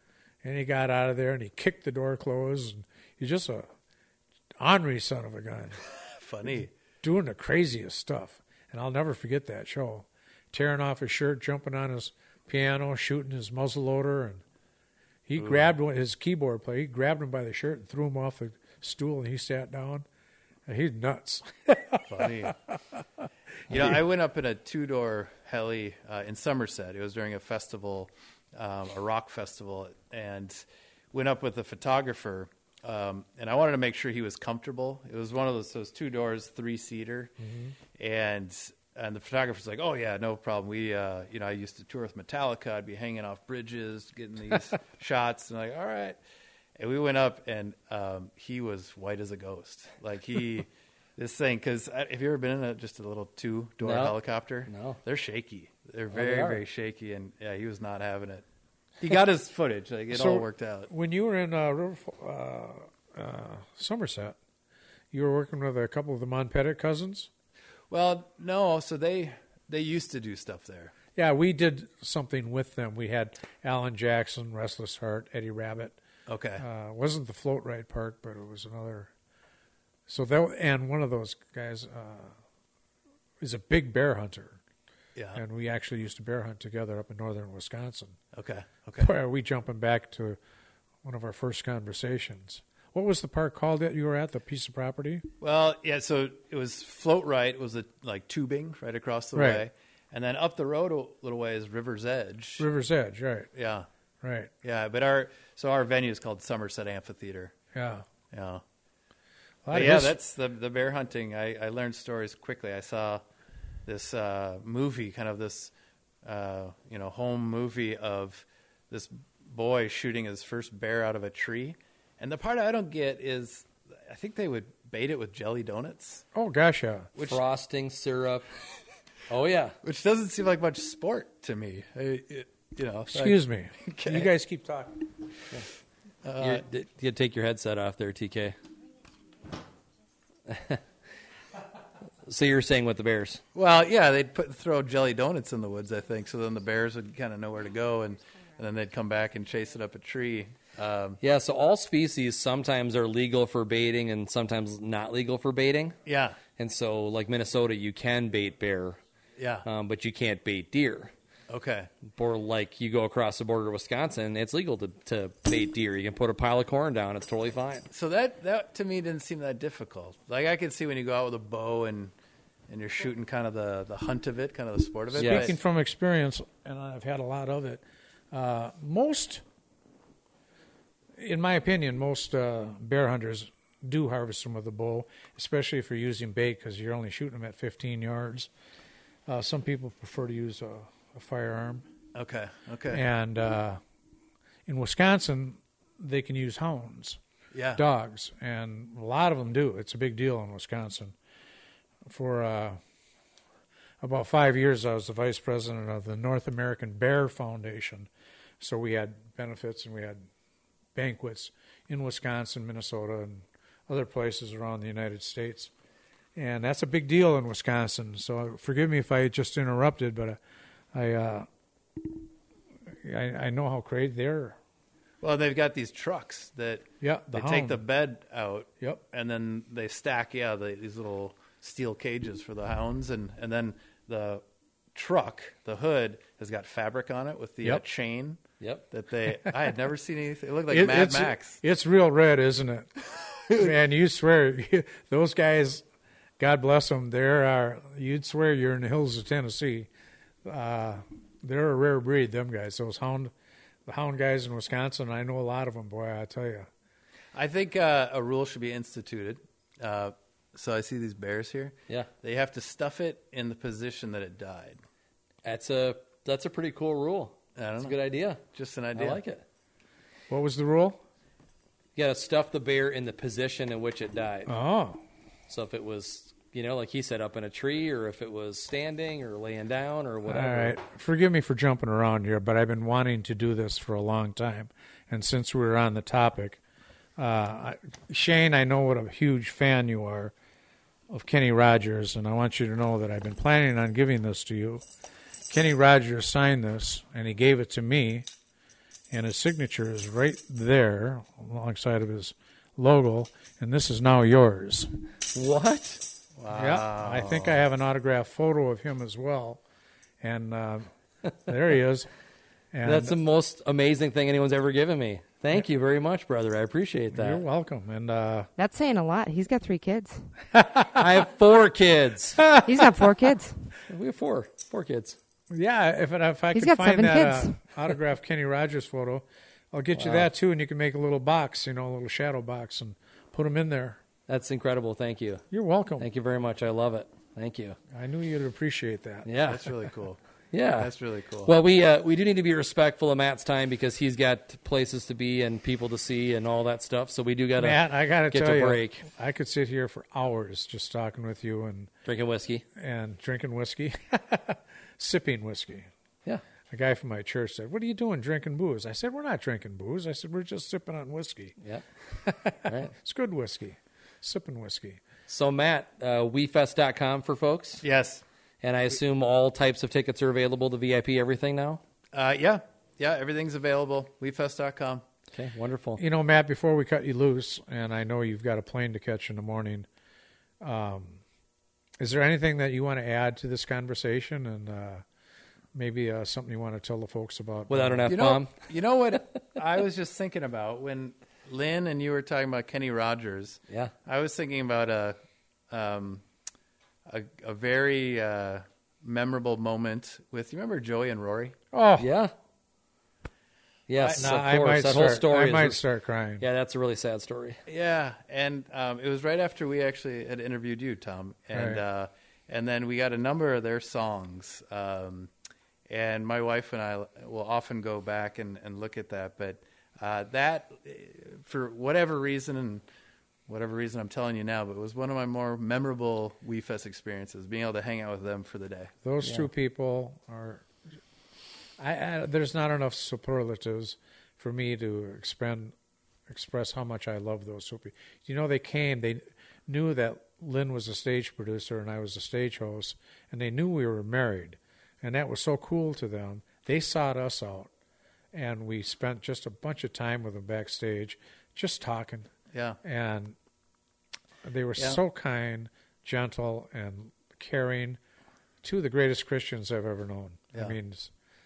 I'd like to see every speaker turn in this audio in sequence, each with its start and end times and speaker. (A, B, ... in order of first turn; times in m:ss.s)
0:00.4-0:03.7 A
0:04.6-0:05.8 A
0:06.1-0:06.7 B
0:07.0-0:14.4 A
0:15.3-0:20.0 A
0:15.4-0:15.7 B
0:20.7-0:22.5 A
0:22.1-0:22.6 B
0:23.7-0:37.3 B
0:37.4-0:37.7 A
0:38.0-0:46.2 B
0:46.8-0:58.4 B
0:53.8-0:55.0 C
0:56.1-0:56.6 C
0:59.0-1:00.9 B
1:00.1-1:04.4 A
1:05.1-1:07.3 A
1:07.9-1:10.9 B
1:11.2-1:16.0 A
1:16.3-1:16.6 B
1:16.6-1:19.1 A
1:20.1-1:22.4 A
1:23.4-1:24.6 A
1:25.2-1:25.4 B
1:25.4-1:28.2 A
1:28.3-1:29.1 B
1:29.0-1:30.4 A
1:31.0-1:35.3 A
1:35.4-1:42.7 B
1:39.4-1:39.6 A
1:42.6-1:43.5 A
1:43.5-1:43.9 B
1:44.2-1:44.5 A
1:44.6-1:47.5 B
1:47.7-1:48.0 A
1:48.3-1:48.6 B
1:49.7-1:50.2 A
1:49.7-1:53.2 B
1:53.9-2:06.2 B
2:06.3-2:07.1 A
2:07.2-2:08.5 C
2:09.3-2:09.8 C
2:09.8-2:14.3 B
2:13.1-2:15.0 A
2:16.2-2:16.6 B
2:16.4-2:18.6 C
2:20.5-2:20.8 C
2:22.2-2:23.4 C
2:23.5-2:31.2 B
2:31.2-2:36.0 C
2:36.1-2:36.4 B
2:36.6-2:39.0 C
2:39.4-2:39.7 B
2:39.6-2:41.1 C
2:41.5-2:41.9 B
2:42.1-2:47.9 C
2:47.9-2:52.1 B
2:52.7-2:55.6 B
2:55.1-2:59.4 A
2:55.2-2:55.5 C
3:01.2-3:08.5 A
3:09.3-3:11.9 A
3:12.1-3:13.0 B
3:12.9-3:13.8 A
3:14.7-3:17.2 A
3:17.5-3:17.8 B
3:17.8-3:21.2 A
3:22.1-3:22.8 A
3:24.0-3:28.1 A
3:28.6-3:30.3 A
3:31.0-3:35.7 A
3:36.4-3:40.4 A
3:40.9-3:41.5 A
3:43.0-3:44.6 A
3:45.2-4:01.6 B
3:47.0-3:47.8 A
4:00.7-4:02.9 A
4:03.5-4:05.8 A
4:06.4-4:09.9 A
4:10.4-4:13.3 A
4:13.9-4:16.7 A
4:17.3-4:24.8 B
4:25.4-4:28.4 C
4:27.6-4:29.2 B
4:28.9-4:29.4 C
4:30.3-4:31.0 A
4:32.0-4:34.5 C
4:34.5-4:35.0 A
4:35.5-4:40.8 C
4:40.3-4:46.6 A
4:47.2-4:50.3 A
4:51.1-4:54.8 A
4:55.5-4:58.3 A
4:59.1-5:04.9 A
5:05.3-5:06.0 C
5:06.4-5:07.6 B
5:06.5-5:09.6 A
5:10.2-5:10.9 A
5:11.4-5:12.1 A
5:12.7-5:13.2 A
5:12.8-5:17.4 C
5:17.1-5:18.5 A
5:18.6-5:20.2 D
5:20.5-5:21.1 A
5:20.9-5:22.4 C
5:22.4-5:23.0 A
5:22.6-5:23.6 D
5:23.9-5:25.2 C
5:25.5-5:34.0 A
5:26.6-5:27.6 D
5:30.0-5:30.3 C
5:34.3-5:35.4 C
5:35.5-5:36.1 A
5:36.0-5:37.8 C
5:37.9-5:39.3 A
5:39.2-5:39.7 C
5:39.4-5:40.2 B
5:40.5-5:40.9 C
5:40.7-5:41.5 B
5:41.4-5:49.0 C
5:47.6-5:51.9 A
5:52.0-5:52.6 C
5:52.8-5:55.9 A
5:56.7-6:01.6 A
6:02.1-6:05.0 A
6:02.7-6:02.9 C
6:05.3-6:07.8 C
6:07.8-6:08.2 B
6:08.6-6:11.8 C
6:12.1-6:15.1 B
6:15.3-6:16.0 C
6:16.0-6:19.9 A
6:20.6-6:21.2 A
6:22.0-6:25.0 A
6:25.7-6:28.1 A
6:27.7-6:28.6 C
6:28.1-6:35.2 B
6:35.7-6:36.2 B
6:37.1-6:41.6 B
6:41.7-6:42.1 A
6:42.0-6:42.3 C
6:43.9-6:45.8 C
6:44.0-6:44.4 B
6:44.1-6:46.4 A
6:46.4-6:47.6 C
6:47.7-6:55.3 B
6:51.5-6:51.8 A
6:55.9-7:02.8 B
7:03.5-7:08.9 B
7:09.0-7:10.6 A
7:09.2-7:09.5 C
7:11.8-7:15.7 A
7:16.3-7:27.7 A
7:28.3-7:32.3 A
7:32.5-7:32.8 B
7:32.8-7:33.4 A
7:34.4-7:38.0 A
7:38.6-7:41.1 A